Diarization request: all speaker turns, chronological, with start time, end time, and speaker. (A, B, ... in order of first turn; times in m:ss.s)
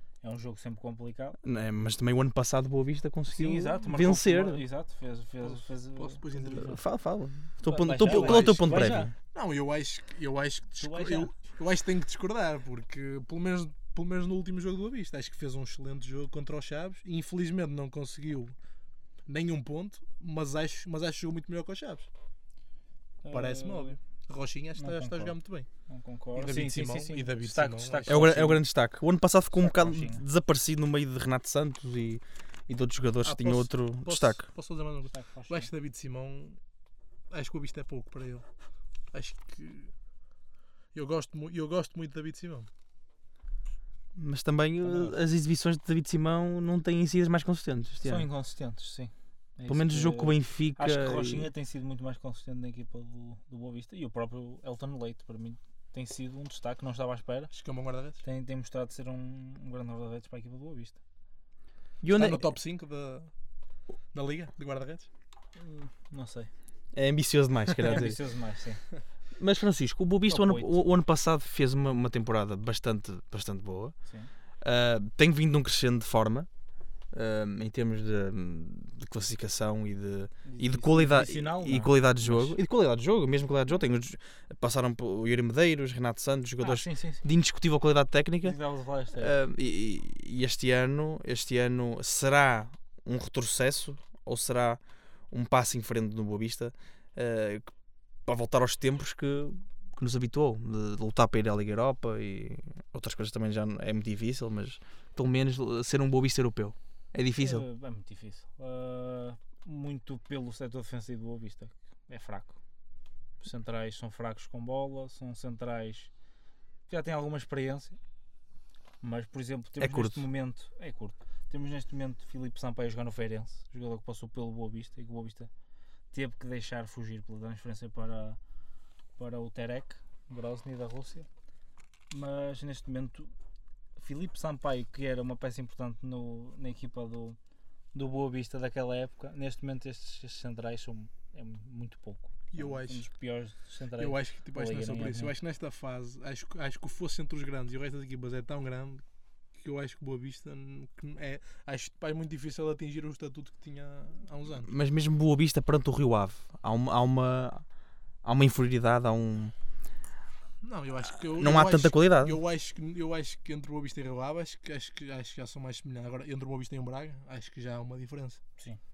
0:00.2-0:01.4 A
0:01.4-0:04.6 B
0:03.3-0:06.8 A
0:05.4-0:06.8 C
0:06.6-0:09.1 B
0:07.6-0:09.1 A
0:08.0-0:18.5 C
0:10.8-0:11.3 A
0:19.3-0:22.1 C
0:23.2-0:24.0 A
0:23.3-0:25.7 C
0:24.8-0:28.6 A
0:26.3-0:28.3 C
0:28.1-0:34.4 B
0:29.5-0:30.2 A
0:33.2-0:36.6 C
0:35.1-0:35.7 A
0:37.3-0:38.4 C
0:39.1-0:39.9 C
0:40.9-0:42.7 C
0:44.2-0:48.3 B
0:44.8-0:45.2 A
0:48.0-0:57.5 A
0:49.7-0:51.5 B
0:57.5-0:58.2 C
0:58.2-1:01.0 A
1:02.0-1:02.5 B
1:02.1-1:03.3 C
1:04.1-1:05.1 C
1:05.6-1:06.5 A
1:06.9-1:08.2 B
1:07.8-1:08.8 A
1:09.4-1:13.9 B
1:10.3-1:10.8 A
1:14.6-1:16.5 B
1:17.1-1:28.6 B
1:20.4-1:22.6 A
1:26.6-1:27.2 A
1:28.4-1:29.3 A
1:29.1-1:34.8 B
1:35.3-1:37.7 B
1:38.3-1:47.6 B
1:47.4-1:52.6 A
1:53.4-1:56.1 A
1:56.9-1:58.0 A
1:59.0-2:05.5 A
1:59.8-2:00.2 B
2:06.1-2:08.4 A
2:09.2-2:11.3 A
2:12.1-2:13.3 A
2:14.0-2:17.4 A
2:17.9-2:25.3 A
2:22.5-2:23.0 C
2:24.0-2:29.0 C
2:29.6-2:34.7 C
2:34.6-2:37.6 B
2:38.2-2:39.5 B
2:40.6-2:48.4 C
2:41.3-2:42.4 B